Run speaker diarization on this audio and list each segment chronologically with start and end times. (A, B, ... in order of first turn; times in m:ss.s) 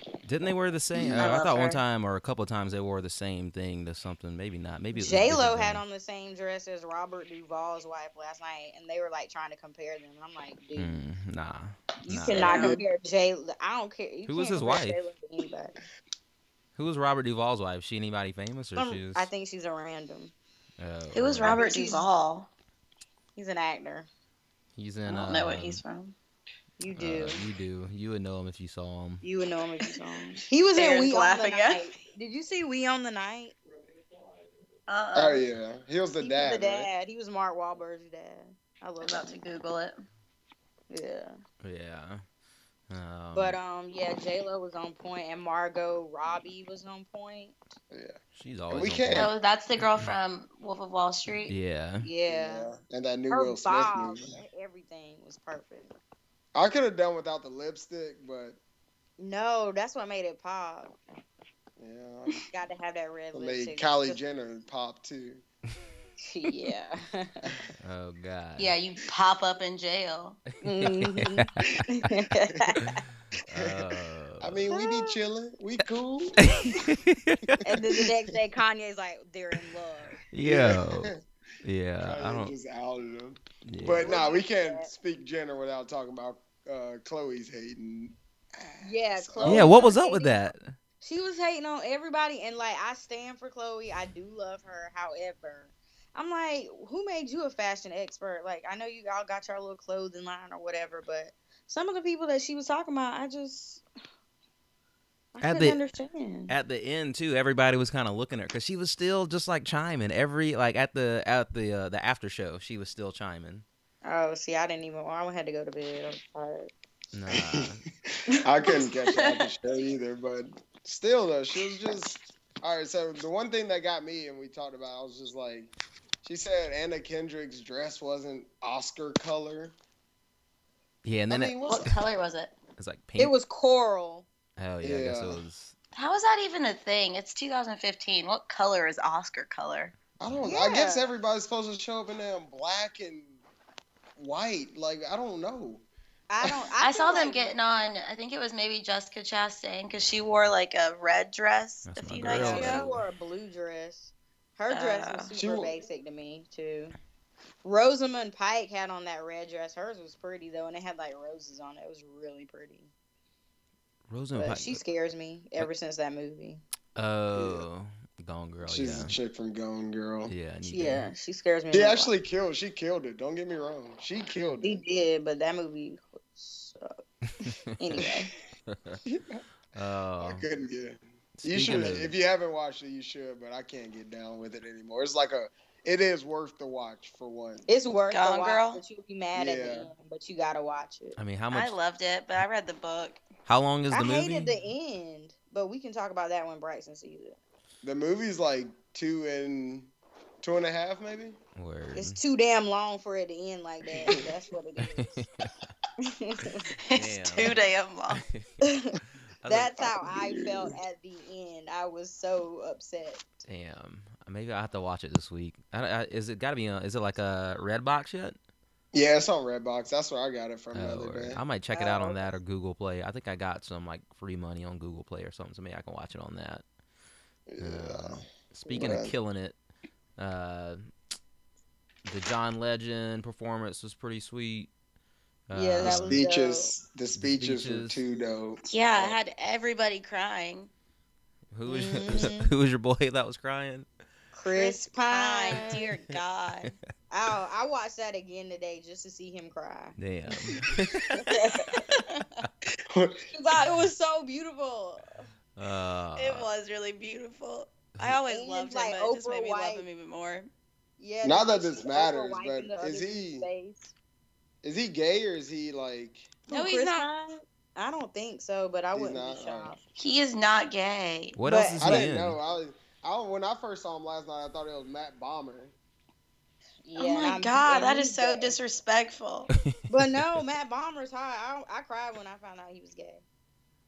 0:00.2-0:05.8 A
0:00.9-0:01.4 B
0:01.2-0:01.8 C
0:04.9-0:11.0 D
0:10.7-0:12.6 A
0:12.0-0:15.7 D
0:12.3-0:12.8 C
0:12.5-0:12.8 B
0:14.2-0:15.0 A
0:16.8-0:19.3 A
0:18.8-0:20.3 D
0:20.8-0:21.6 A
0:21.1-0:22.5 C
0:21.4-0:22.1 D
0:23.4-0:24.1 D
0:24.8-0:25.8 A
0:25.1-0:26.1 C
0:26.8-0:27.4 D
0:26.9-0:29.2 A
0:29.2-0:33.6 D
0:30.7-0:31.8 C
0:34.9-0:35.4 C
0:35.1-0:36.9 B
0:36.2-0:39.3 D
0:39.0-0:40.0 C
0:40.9-0:41.4 D
0:41.6-0:42.2 A
0:42.9-0:43.6 A
0:43.3-0:47.6 D
0:47.9-0:48.2 B
0:48.3-0:49.3 A
0:48.7-0:49.3 B
0:49.1-0:51.5 C
0:51.5-0:52.1 A
0:52.0-0:52.7 D
0:52.3-0:54.3 B
0:53.3-0:55.9 D
0:56.5-0:58.6 B
0:59.2-1:00.9 D
1:01.8-1:02.4 B
1:02.5-1:04.2 D
1:03.3-1:05.4 B
1:06.2-1:07.6 D
1:07.8-1:08.7 A
1:08.6-1:10.4 C
1:10.6-1:13.0 D
1:10.8-1:11.8 A
1:12.8-1:14.7 A
1:13.5-1:13.8 B
1:14.4-1:16.5 B
1:14.7-1:15.2 D
1:16.4-1:18.0 A
1:17.6-1:20.2 D
1:20.3-1:21.1 A
1:20.4-1:21.2 B
1:21.6-1:22.5 A
1:22.0-1:29.9 B
1:23.6-1:24.1 A
1:24.0-1:24.9 D
1:28.8-1:30.5 D
1:29.4-1:30.8 A
1:31.0-1:43.8 D
1:45.3-1:46.5 D
1:45.4-1:45.8 A
1:46.5-1:53.6 A
1:54.0-1:56.7 D
1:57.1-1:57.8 A
1:57.3-2:09.7 B
1:58.6-1:59.4 C
2:11.0-2:11.6 A
2:11.3-2:11.9 B
2:11.6-2:12.5 C
2:12.8-2:13.3 A
2:13.2-2:14.3 D
2:14.6-2:15.7 A
2:14.8-2:15.4 B
2:15.9-2:19.9 C
2:20.2-2:23.4 B
2:20.2-2:20.5 A
2:20.4-2:21.1 D
2:24.2-2:25.8 B
2:26.3-2:27.5 D
2:26.8-2:32.9 C
2:31.9-2:33.0 A
2:32.3-2:36.9 D
2:34.7-2:35.3 C
2:35.4-2:35.8 B
2:37.6-2:42.9 D
2:44.1-2:44.8 A
2:44.4-2:46.6 D
2:47.0-2:49.2 A
2:47.3-2:47.6 B
2:48.6-2:50.3 B
2:50.3-2:51.0 A
2:50.6-2:52.1 D
2:51.7-2:54.8 B
2:54.6-2:56.9 D
2:57.4-2:58.1 A
2:57.8-2:58.3 D
2:58.7-2:59.0 A
2:59.0-2:59.4 B
2:59.7-3:00.4 A
3:00.2-3:07.6 B
3:01.4-3:02.1 A
3:07.7-3:11.2 D
3:08.1-3:08.8 C
3:09.3-3:09.9 B
3:11.2-3:11.8 A
3:11.5-3:13.2 C
3:13.4-3:14.6 A
3:13.9-3:17.4 D
3:17.8-3:21.4 B
3:21.6-3:22.2 A
3:21.9-3:25.2 D
3:24.9-3:25.5 A
3:26.0-3:26.7 D
3:26.8-3:28.2 C
3:26.9-3:27.6 A
3:28.2-3:28.4 A
3:28.6-3:33.4 D
3:29.4-3:29.9 A
3:30.0-3:30.7 B
3:33.4-3:38.4 A
3:38.9-3:41.4 B
3:40.7-3:46.6 A
3:41.7-3:42.3 D
3:47.5-3:49.1 B
3:47.6-3:49.6 A
3:50.2-3:50.8 A
3:52.0-3:54.7 A
3:55.5-3:56.2 A
3:55.5-3:56.7 D
3:55.8-3:59.2 B
3:57.2-3:58.0 A
3:58.7-4:00.7 C
4:01.5-4:03.9 A
4:01.7-4:02.5 D
4:04.3-4:05.9 D
4:04.5-4:06.7 C
4:07.1-4:10.0 D
4:10.0-4:12.0 A
4:11.2-4:12.0 D
4:12.9-4:13.2 B
4:13.3-4:15.0 D
4:15.6-4:16.5 A
4:16.2-4:20.5 C
4:18.3-4:19.8 D
4:21.0-4:23.9 D
4:21.2-4:23.5 B
4:24.6-4:26.3 B
4:26.5-4:27.1 C
4:26.5-4:29.8 D
4:28.9-4:29.7 B
4:30.0-4:31.4 C
4:31.4-4:32.4 A
4:31.4-4:32.0 D
4:31.8-4:35.7 B
4:36.8-4:38.6 D
4:37.0-4:39.5 C
4:39.9-4:43.2 D